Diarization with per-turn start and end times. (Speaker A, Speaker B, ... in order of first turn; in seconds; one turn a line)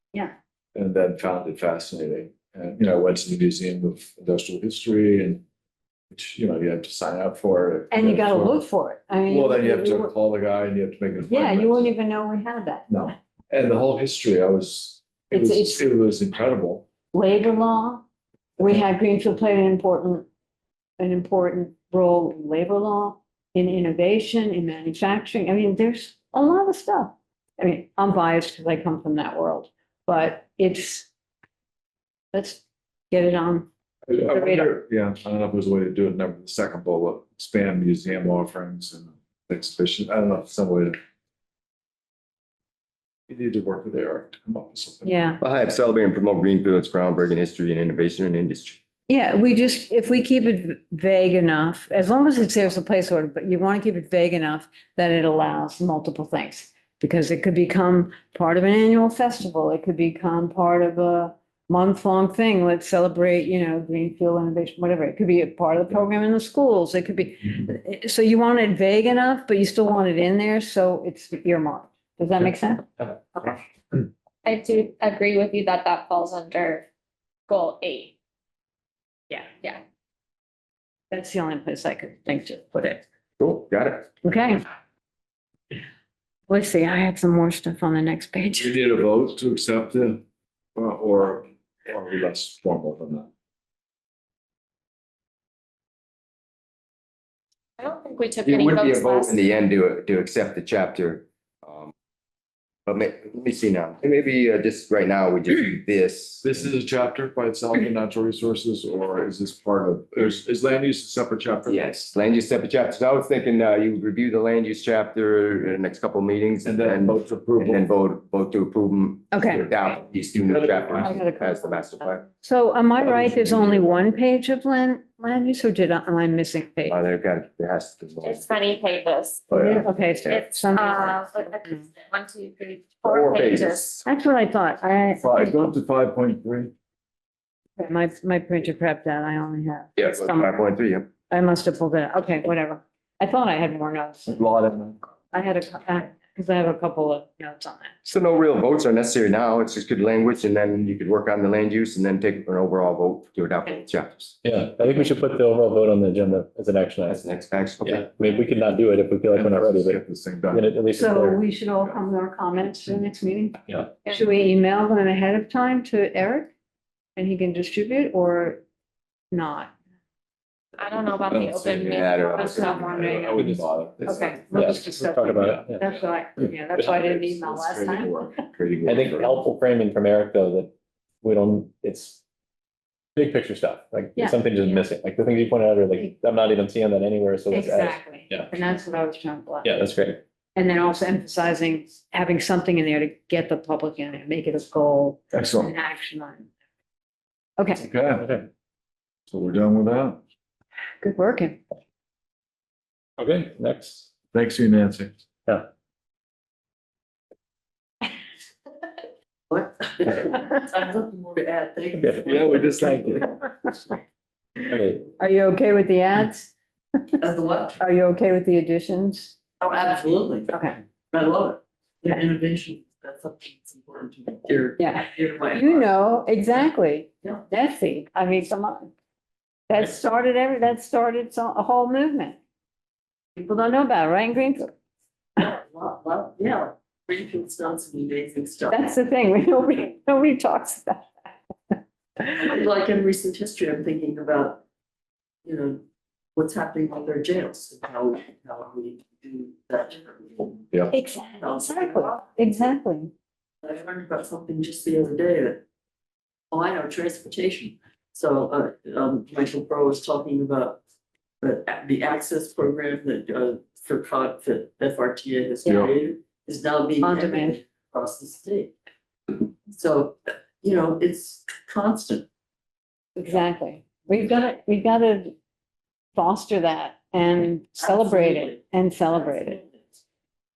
Speaker A: 0.8-5.4
Speaker A: 6.1-8.7
Speaker B: 7.9-10.1
Speaker A: 9.2-11.9
Speaker B: 11.3-12.9
Speaker A: 12.9-16.9
Speaker B: 15.3-15.8
Speaker B: 17.1-18.0
Speaker B: 18.6-20.3
Speaker B: 21.0-31.1
Speaker B: 32.3-33.7
Speaker A: 34.1-41.0
Speaker B: 34.3-34.7
Speaker A: 43.3-45.2
Speaker B: 45.0-45.4
Speaker C: 45.4-48.8
Speaker B: 49.1-73.5
Speaker D: 74.5-76.9
Speaker D: 77.5-78.1
Speaker B: 81.1-83.0
Speaker C: 83.4-84.1
Speaker B: 84.2-84.6
Speaker B: 86.5-88.7
Speaker A: 88.6-90.2
Speaker A: 90.8-93.3
Speaker D: 97.8-99.5
Speaker C: 98.5-101.9
Speaker C: 102.9-106.5
Speaker A: 106.4-112.0
Speaker C: 111.7-122.2
Speaker A: 116.7-117.9
Speaker B: 119.3-119.7
Speaker A: 120.5-121.1
Speaker B: 121.0-127.0
Speaker C: 126.9-128.5
Speaker D: 128.2-129.5
Speaker B: 129.5-131.8
Speaker C: 129.5-130.4
Speaker D: 130.3-134.0
Speaker C: 133.1-134.0
Speaker B: 134.0-135.6
Speaker A: 135.2-136.7
Speaker B: 137.8-140.5
Speaker C: 140.0-141.1
Speaker B: 141.3-144.3
Speaker A: 144.3-145.0
Speaker B: 145.3-148.0
Speaker C: 148.1-154.3
Speaker E: 154.4-157.2
Speaker C: 157.1-158.1
Speaker E: 157.8-161.4
Speaker A: 159.3-160.7
Speaker B: 160.9-166.5
Speaker E: 163.7-163.9
Speaker B: 167.2-168.6
Speaker B: 169.3-169.7
Speaker D: 170.8-173.6
Speaker A: 171.3-174.4
Speaker C: 171.9-173.1
Speaker B: 172.4-172.8
Speaker E: 173.3-173.7
Speaker B: 174.1-178.2
Speaker E: 174.5-175.9
Speaker E: 176.7-177.1
Speaker A: 176.8-179.4
Speaker E: 178.9-182.2
Speaker E: 183.2-188.6
Speaker B: 187.5-189.8
Speaker E: 189.6-190.2
Speaker B: 190.6-196.5
Speaker A: 195.3-195.7
Speaker B: 197.6-197.8
Speaker A: 197.8-198.3
Speaker E: 198.2-198.5
Speaker A: 199.3-200.2
Speaker B: 201.0-201.6
Speaker E: 203.2-204.1
Speaker A: 204.3-205.2
Speaker F: 209.5-212.8
Speaker E: 212.0-212.3
Speaker A: 212.3-213.3
Speaker E: 214.6-215.1
Speaker B: 215.2-216.5
Speaker F: 217.2-217.8
Speaker B: 217.8-219.3
Speaker F: 219.6-225.9
Speaker B: 220.5-220.8
Speaker B: 224.8-228.9
Speaker B: 229.7-232.4
Speaker B: 233.4-234.7
Speaker F: 235.4-238.8
Speaker B: 238.7-241.1
Speaker F: 242.3-244.6
Speaker F: 245.4-245.8
Speaker F: 246.4-250.7
Speaker B: 250.9-253.1
Speaker F: 251.4-252.2
Speaker F: 253.6-255.6
Speaker F: 256.5-260.8
Speaker F: 261.4-268.7
Speaker A: 265.6-265.9
Speaker B: 267.0-267.6
Speaker F: 269.7-272.3
Speaker B: 273.2-275.3
Speaker B: 276.1-279.6
Speaker F: 277.8-278.6
Speaker F: 279.2-279.7